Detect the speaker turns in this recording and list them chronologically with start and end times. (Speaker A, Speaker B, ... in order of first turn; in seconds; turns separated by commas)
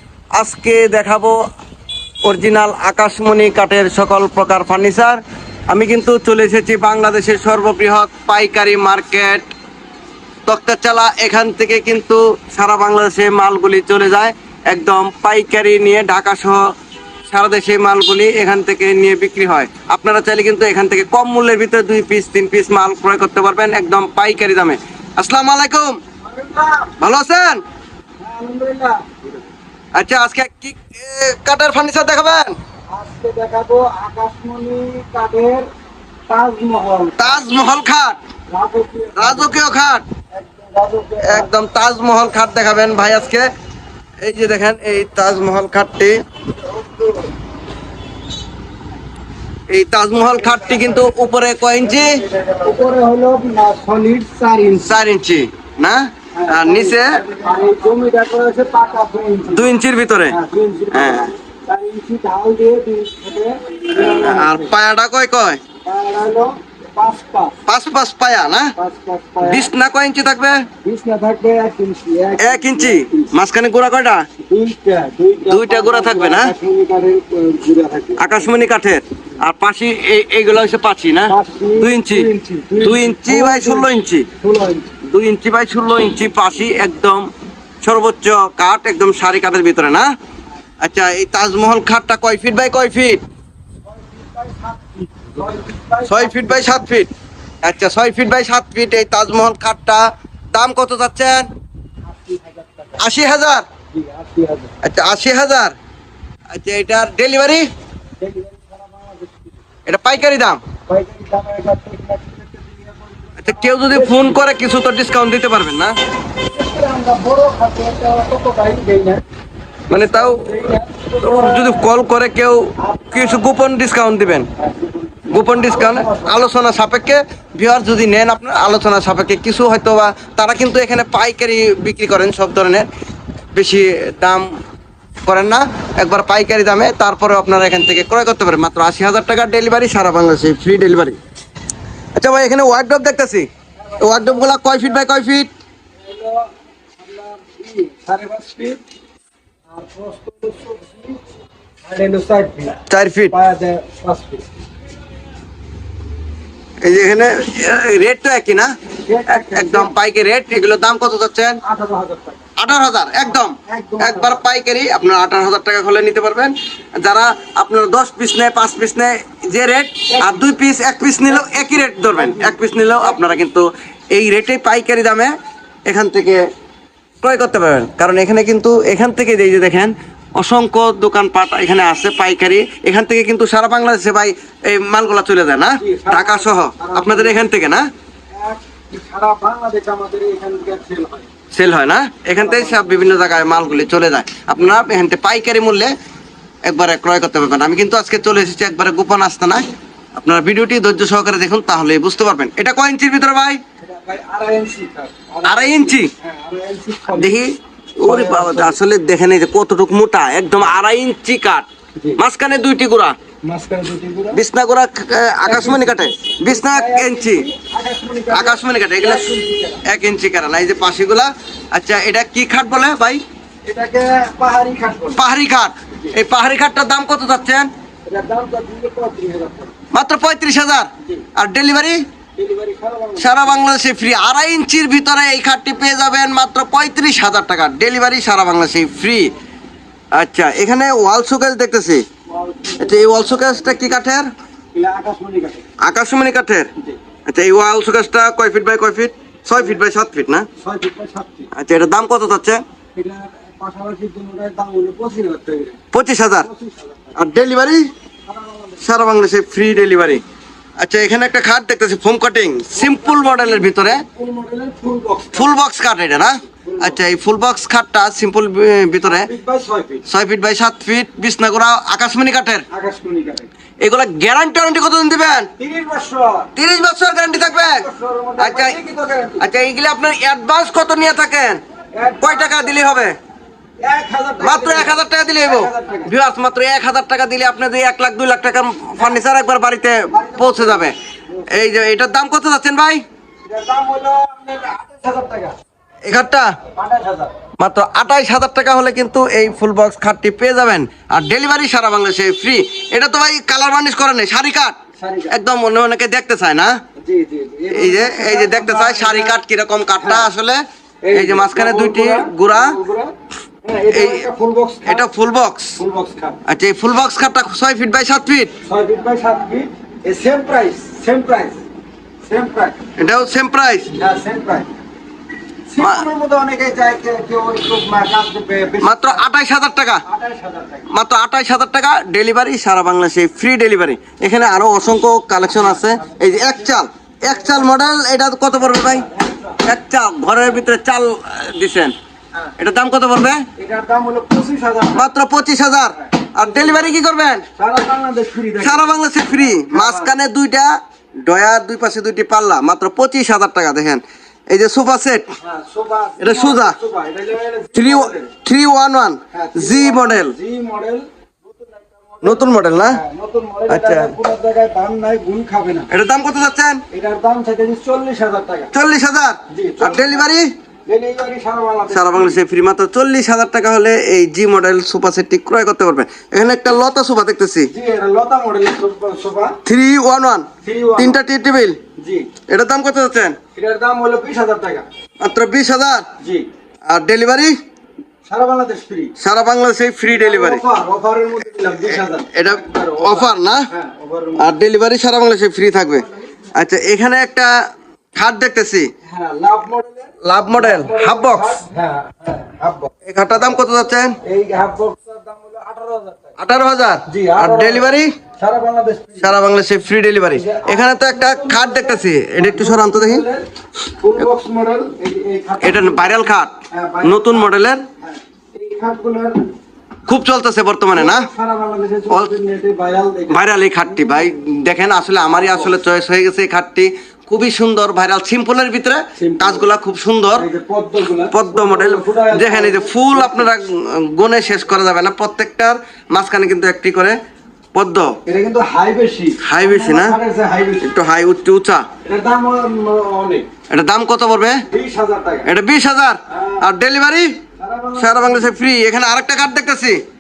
Speaker A: 0.4-1.4, Speaker A: 2.2-9.5, Speaker A: 10.5-16.6, Speaker A: 17.3-26.0, Speaker B: 26.2-26.9, Speaker A: 27.0-27.6, Speaker B: 28.2-29.4, Speaker A: 29.9-32.5, Speaker B: 32.9-35.7, Speaker B: 36.3-37.5, Speaker A: 37.2-38.2, Speaker B: 38.5-39.6, Speaker A: 39.2-40.0, Speaker B: 40.3-41.5, Speaker A: 41.2-43.5, Speaker A: 44.2-46.1, Speaker B: 46.6-47.2, Speaker A: 49.7-52.2, Speaker B: 50.4-51.0, Speaker B: 51.8-55.0, Speaker A: 54.8-57.2, Speaker B: 56.4-59.8, Speaker A: 59.5-60.4, Speaker B: 60.3-64.7, Speaker A: 60.9-61.3, Speaker A: 63.9-65.6, Speaker B: 65.8-67.5, Speaker A: 67.7-68.7, Speaker B: 68.8-69.7, Speaker A: 69.4-70.6, Speaker B: 70.8-73.3, Speaker A: 72.4-74.2, Speaker B: 74.5-78.6, Speaker A: 75.5-76.5, Speaker A: 78.2-82.3, Speaker B: 81.3-83.9, Speaker A: 82.8-84.3, Speaker B: 84.4-85.0, Speaker A: 85.0-87.3, Speaker A: 87.8-90.1, Speaker A: 90.8-93.2, Speaker B: 93.9-96.8, Speaker A: 96.1-97.1, Speaker A: 97.6-101.5, Speaker B: 102.0-103.1, Speaker A: 103.0-103.7, Speaker B: 103.9-104.7, Speaker A: 104.8-105.7, Speaker A: 106.5-107.7, Speaker B: 108.2-109.6, Speaker A: 109.9-110.6, Speaker B: 110.9-114.6, Speaker A: 113.4-116.0, Speaker B: 116.5-119.2, Speaker A: 119.9-120.4, Speaker B: 119.9-121.9, Speaker A: 121.2-124.5, Speaker B: 122.8-123.5, Speaker B: 124.6-126.4, Speaker A: 125.3-132.8, Speaker A: 133.5-134.5, Speaker A: 135.2-141.2, Speaker A: 142.2-143.5, Speaker B: 143.8-145.1, Speaker A: 144.0-145.5, Speaker B: 146.0-148.8, Speaker B: 149.7-151.2, Speaker B: 151.8-152.8, Speaker A: 152.9-153.3, Speaker B: 153.3-154.4, Speaker A: 156.8-158.7, Speaker B: 159.1-159.9, Speaker A: 159.3-161.6, Speaker B: 161.6-162.5, Speaker A: 162.6-175.3, Speaker B: 163.3-164.4, Speaker B: 170.1-170.5, Speaker B: 171.2-173.4, Speaker A: 175.9-176.4, Speaker A: 177.2-187.9, Speaker B: 185.8-187.5, Speaker B: 188.3-191.3, Speaker A: 191.5-195.9, Speaker B: 192.3-193.5, Speaker A: 196.7-203.6, Speaker B: 203.8-207.4, Speaker A: 205.4-206.1, Speaker A: 207.1-211.7, Speaker B: 208.0-208.8, Speaker A: 212.2-213.2, Speaker B: 213.4-214.4, Speaker A: 214.3-217.5, Speaker B: 215.4-219.8, Speaker A: 218.3-219.3, Speaker A: 219.8-223.2, Speaker B: 223.7-225.2, Speaker A: 225.2-227.7, Speaker B: 228.1-229.7, Speaker A: 229.9-232.0, Speaker B: 232.4-233.7, Speaker A: 233.2-239.3, Speaker A: 240.2-242.0, Speaker B: 242.3-244.0, Speaker A: 242.8-244.3, Speaker B: 244.7-245.7, Speaker A: 245.8-246.7, Speaker A: 247.3-250.5, Speaker B: 250.6-251.5, Speaker A: 251.5-252.6, Speaker B: 252.9-255.8, Speaker A: 255.9-256.5, Speaker B: 256.4-257.2, Speaker A: 257.2-257.9, Speaker B: 258.3-259.0, Speaker A: 258.8-260.2, Speaker A: 260.8-264.0, Speaker B: 262.7-265.6, Speaker A: 265.4-269.3, Speaker B: 266.6-267.0, Speaker B: 269.0-270.0, Speaker A: 270.1-272.6, Speaker B: 272.7-273.5, Speaker A: 273.8-275.5, Speaker B: 275.6-276.5, Speaker A: 276.6-277.9, Speaker B: 277.5-279.4, Speaker A: 278.4-278.8, Speaker A: 279.4-281.6, Speaker B: 281.9-282.9, Speaker A: 282.2-283.1, Speaker B: 283.8-286.1, Speaker A: 284.4-290.9, Speaker B: 289.0-289.2, Speaker B: 290.1-291.6, Speaker A: 291.5-293.0, Speaker B: 293.4-295.6, Speaker A: 296.1-296.5, Speaker B: 296.7-297.3, Speaker A: 297.6-306.8, Speaker B: 305.0-305.3, Speaker B: 307.0-309.4, Speaker A: 307.7-310.6, Speaker B: 310.0-310.3, Speaker B: 311.0-315.1, Speaker A: 311.1-312.8, Speaker A: 313.9-314.3, Speaker A: 314.9-315.8, Speaker B: 315.8-316.4, Speaker A: 316.5-318.5, Speaker B: 318.6-321.6, Speaker B: 322.3-322.8, Speaker A: 323.0-323.9, Speaker B: 323.9-324.7, Speaker B: 325.7-329.2, Speaker A: 325.8-326.1, Speaker A: 328.8-330.0, Speaker B: 330.1-330.9, Speaker A: 330.9-339.1, Speaker B: 335.5-337.9, Speaker B: 338.5-339.6, Speaker A: 339.6-341.9, Speaker A: 342.6-343.4, Speaker B: 343.6-345.1, Speaker A: 344.9-347.4, Speaker B: 346.0-346.9, Speaker B: 347.6-350.1, Speaker A: 348.6-350.7, Speaker A: 351.2-355.2, Speaker B: 355.4-358.3, Speaker A: 356.2-356.8, Speaker A: 357.8-360.4, Speaker B: 359.3-365.9, Speaker A: 362.2-363.0, Speaker A: 363.7-364.1, Speaker A: 365.9-366.8, Speaker B: 366.9-368.7, Speaker A: 368.7-370.5, Speaker B: 369.5-370.3, Speaker B: 370.9-372.4, Speaker A: 371.9-377.7, Speaker B: 377.7-379.6, Speaker A: 379.6-381.8, Speaker B: 380.6-381.2, Speaker B: 382.0-382.3, Speaker A: 382.5-383.4, Speaker B: 383.6-384.9, Speaker A: 385.2-386.1, Speaker B: 386.2-386.5, Speaker A: 386.9-387.6, Speaker B: 388.3-389.1, Speaker A: 389.2-390.6, Speaker B: 390.1-394.5, Speaker A: 391.6-393.6, Speaker A: 394.4-397.5, Speaker B: 396.0-396.4, Speaker A: 398.2-398.9, Speaker B: 399.1-402.9, Speaker A: 400.2-401.6, Speaker A: 403.1-404.2, Speaker B: 404.2-406.4, Speaker A: 406.4-408.1, Speaker B: 407.1-409.4, Speaker A: 409.2-413.2, Speaker B: 410.3-413.5, Speaker B: 414.0-416.2, Speaker A: 415.6-417.8, Speaker B: 416.7-419.5, Speaker A: 420.1-421.3, Speaker B: 420.9-424.2, Speaker A: 423.3-430.5, Speaker B: 425.2-425.8, Speaker B: 429.2-429.7, Speaker B: 430.4-433.5, Speaker A: 431.3-437.2, Speaker A: 437.7-438.1, Speaker B: 438.3-440.9, Speaker A: 439.4-440.2, Speaker A: 440.8-441.9, Speaker B: 442.0-443.5, Speaker A: 443.7-444.6, Speaker B: 444.7-445.5, Speaker A: 445.4-447.3, Speaker B: 446.3-446.6, Speaker B: 447.6-448.5, Speaker A: 448.0-450.0